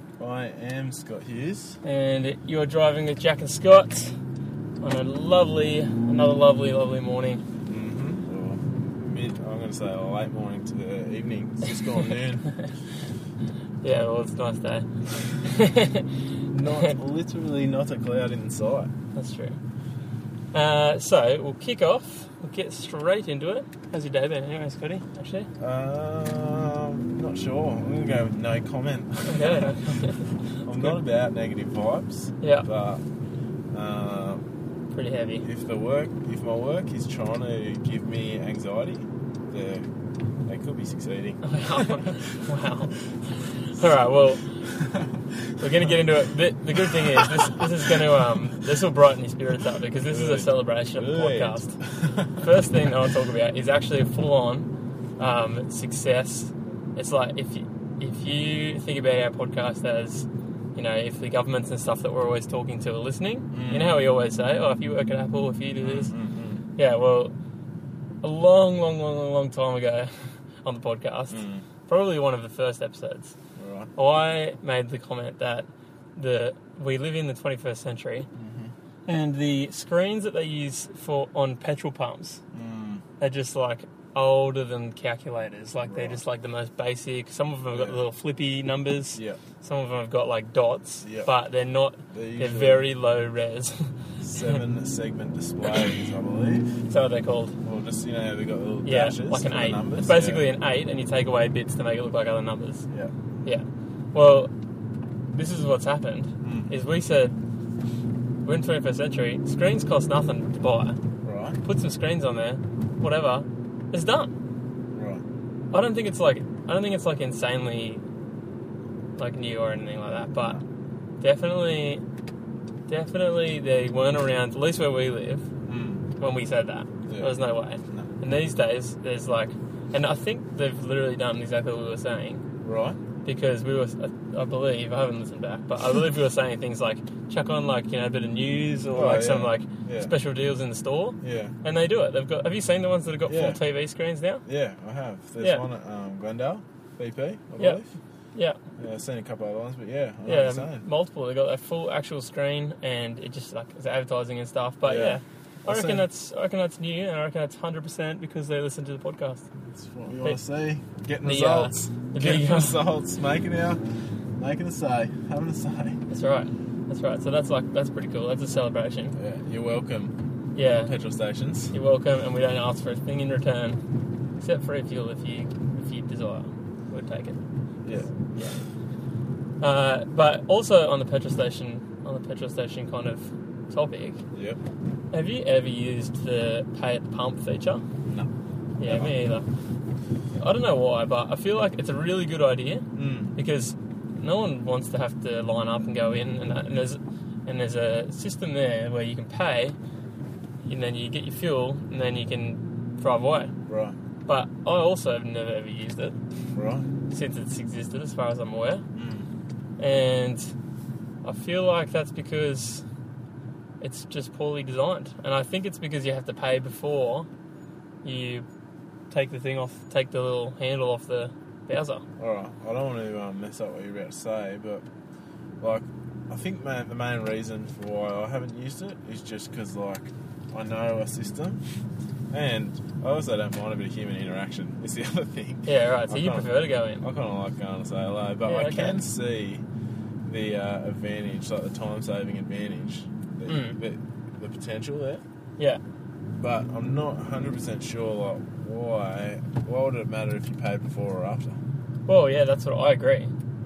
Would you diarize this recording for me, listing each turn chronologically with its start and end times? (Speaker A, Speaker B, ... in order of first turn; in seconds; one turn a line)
Speaker A: 0.2-1.8
Speaker B: 1.8-4.1
Speaker B: 4.8-7.4
Speaker A: 7.7-12.5
Speaker B: 13.8-14.9
Speaker B: 15.4-16.1
Speaker A: 16.5-18.9
Speaker B: 19.1-19.6
Speaker B: 20.5-25.5
Speaker A: 25.6-29.7
Speaker B: 29.3-30.3
Speaker A: 30.6-33.0
Speaker B: 32.4-32.6
Speaker A: 33.7-34.4
Speaker B: 34.9-35.4
Speaker A: 35.4-39.9
Speaker A: 40.5-42.1
Speaker B: 41.4-42.9
Speaker B: 43.7-44.4
Speaker A: 44.8-45.1
Speaker B: 45.6-51.7
Speaker A: 47.2-47.6
Speaker A: 49.9-52.4
Speaker B: 52.4-66.1
Speaker A: 63.5-64.0
Speaker A: 65.8-66.6
Speaker B: 66.8-67.3
Speaker B: 68.2-70.1
Speaker B: 70.6-73.3
Speaker A: 71.3-71.6
Speaker A: 73.6-73.9
Speaker B: 74.0-78.3
Speaker A: 78.3-78.7
Speaker B: 79.0-82.4
Speaker A: 82.5-83.0
Speaker B: 83.2-94.5
Speaker A: 85.8-86.2
Speaker A: 87.7-88.0
Speaker A: 89.1-89.4
Speaker A: 91.0-91.3
Speaker A: 92.1-92.8
Speaker A: 94.2-96.7
Speaker B: 96.9-97.5
Speaker A: 97.6-100.5
Speaker B: 98.8-102.8
Speaker B: 103.4-104.5
Speaker B: 105.3-107.3
Speaker A: 106.4-106.7
Speaker B: 108.4-111.0
Speaker A: 111.2-111.6
Speaker B: 111.6-114.3
Speaker A: 114.9-115.2
Speaker B: 115.7-118.0
Speaker B: 119.2-120.6
Speaker A: 120.3-120.6
Speaker B: 121.2-122.0
Speaker B: 122.9-125.4
Speaker A: 125.6-126.1
Speaker B: 126.2-132.4
Speaker A: 127.0-128.1
Speaker A: 132.6-133.0
Speaker B: 133.2-144.4
Speaker A: 138.9-140.1
Speaker A: 141.2-141.5
Speaker A: 143.3-143.6
Speaker A: 144.4-147.9
Speaker B: 145.4-145.6
Speaker A: 148.8-150.8
Speaker B: 150.2-159.4
Speaker A: 154.8-156.1
Speaker A: 159.7-163.8
Speaker B: 161.2-162.8
Speaker A: 164.4-166.0
Speaker B: 166.1-169.2
Speaker A: 169.1-170.1
Speaker B: 170.5-170.9
Speaker A: 170.8-171.7
Speaker B: 171.7-173.8
Speaker B: 174.4-177.4
Speaker A: 177.8-178.2
Speaker B: 179.6-184.2
Speaker A: 184.3-184.6
Speaker B: 185.1-187.8
Speaker A: 188.0-188.3
Speaker B: 188.8-189.4
Speaker A: 188.8-189.1
Speaker B: 190.3-199.8
Speaker A: 192.9-193.4
Speaker B: 200.7-203.5
Speaker A: 203.7-203.9
Speaker B: 204.3-206.2
Speaker A: 206.5-206.9
Speaker B: 207.1-208.8
Speaker A: 208.9-209.3
Speaker B: 209.8-210.5
Speaker B: 211.2-212.8
Speaker B: 213.8-217.3
Speaker B: 218.0-218.4
Speaker B: 219.1-222.0
Speaker A: 222.2-224.8
Speaker A: 225.6-231.6
Speaker A: 232.3-239.6
Speaker B: 235.7-237.0
Speaker B: 238.4-239.0
Speaker A: 240.2-245.2
Speaker B: 243.5-243.8
Speaker A: 246.4-251.6
Speaker B: 252.1-253.3